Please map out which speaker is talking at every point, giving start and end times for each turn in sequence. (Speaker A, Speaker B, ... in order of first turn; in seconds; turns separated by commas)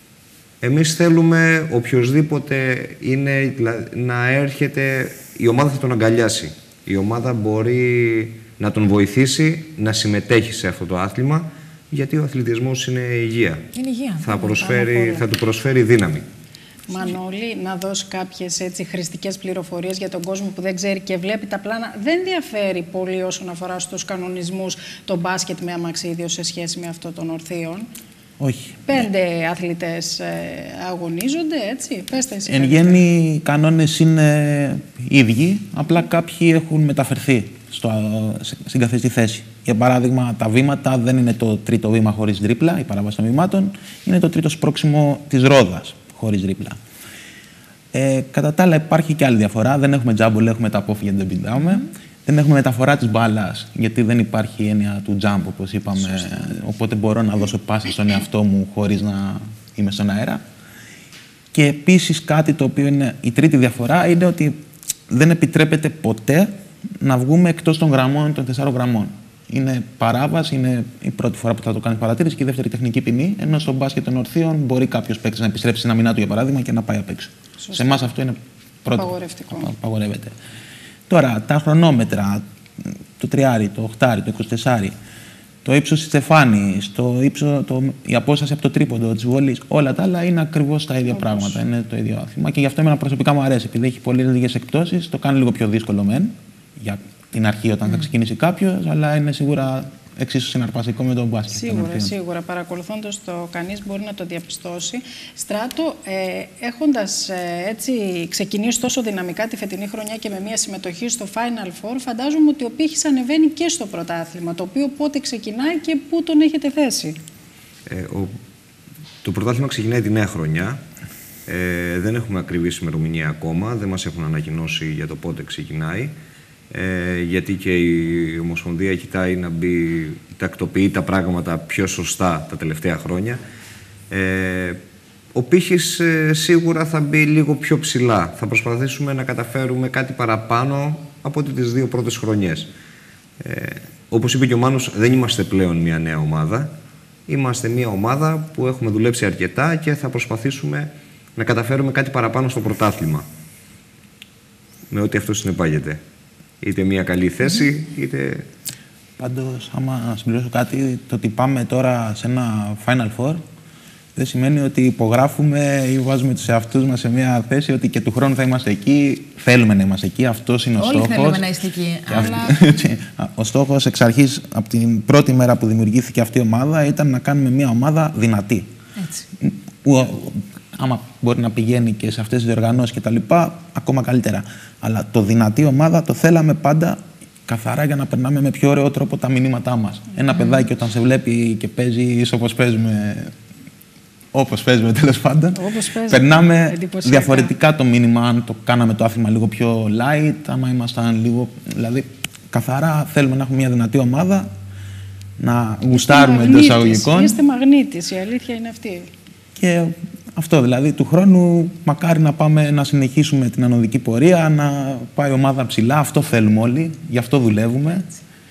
Speaker A: 0.6-13.7, Speaker B: 13.7-14.3, Speaker A: 14.2-16.3, Speaker C: 14.4-15.2, Speaker C: 16.9-27.9, Speaker D: 28.4-29.0, Speaker C: 28.9-33.0, Speaker D: 32.5-46.8, Speaker D: 47.9-60.4, Speaker D: 61.5-64.6, Speaker D: 65.1-80.3, Speaker C: 77.6-78.1, Speaker C: 78.9-79.7, Speaker D: 81.1-84.9, Speaker D: 85.7-102.1, Speaker C: 91.2-91.6, Speaker C: 101.5-117.2, Speaker A: 117.9-118.3, Speaker A: 119.2-120.8, Speaker A: 121.5-126.1, Speaker A: 126.7-133.4, Speaker A: 134.1-134.8, Speaker A: 135.3-142.7, Speaker A: 143.4-146.7, Speaker A: 147.3-153.3, Speaker A: 154.9-156.0, Speaker A: 156.6-158.5, Speaker D: 159.2-163.4, Speaker D: 164.2-171.4, Speaker B: 170.8-172.7, Speaker D: 172.1-178.7, Speaker B: 179.0-179.3, Speaker D: 179.4-193.3, Speaker B: 190.3-190.6, Speaker D: 194.3-195.6, Speaker C: 195.5-197.5, Speaker D: 196.1-204.5, Speaker D: 205.4-207.4, Speaker C: 205.9-209.1, Speaker D: 209.6-218.1